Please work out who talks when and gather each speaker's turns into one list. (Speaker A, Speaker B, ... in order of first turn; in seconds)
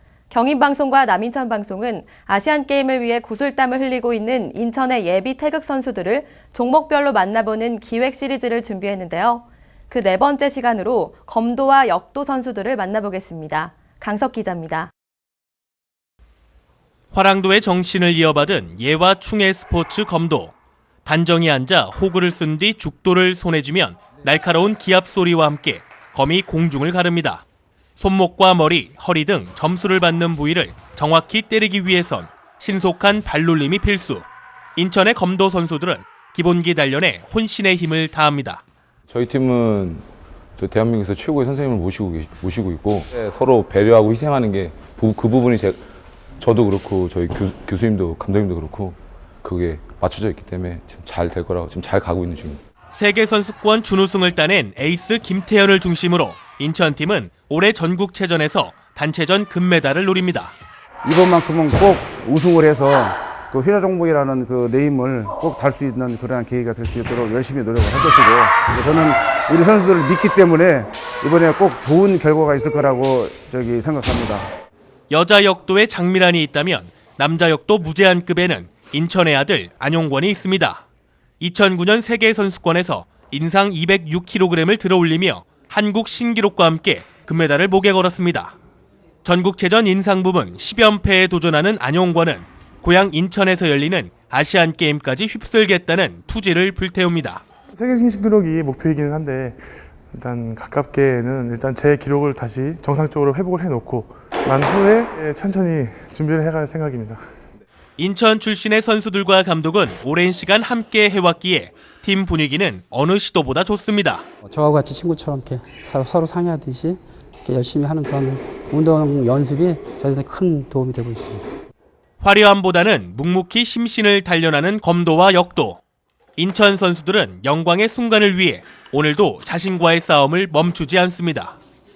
Speaker A: 0.3-14.9
Speaker B: 17.1-20.5, 21.0-27.4, 28.0-38.6, 52.9-60.5, 75.1-80.8, 81.4-88.5, 89.2-97.4, 108.0-114.2, 122.2-125.8, 126.4-131.6
Speaker C: 39.1-40.0, 40.6-45.8, 46.4-52.6
Speaker D: 61.0-74.5
Speaker E: 97.7-107.2
Speaker F: 114.4-121.5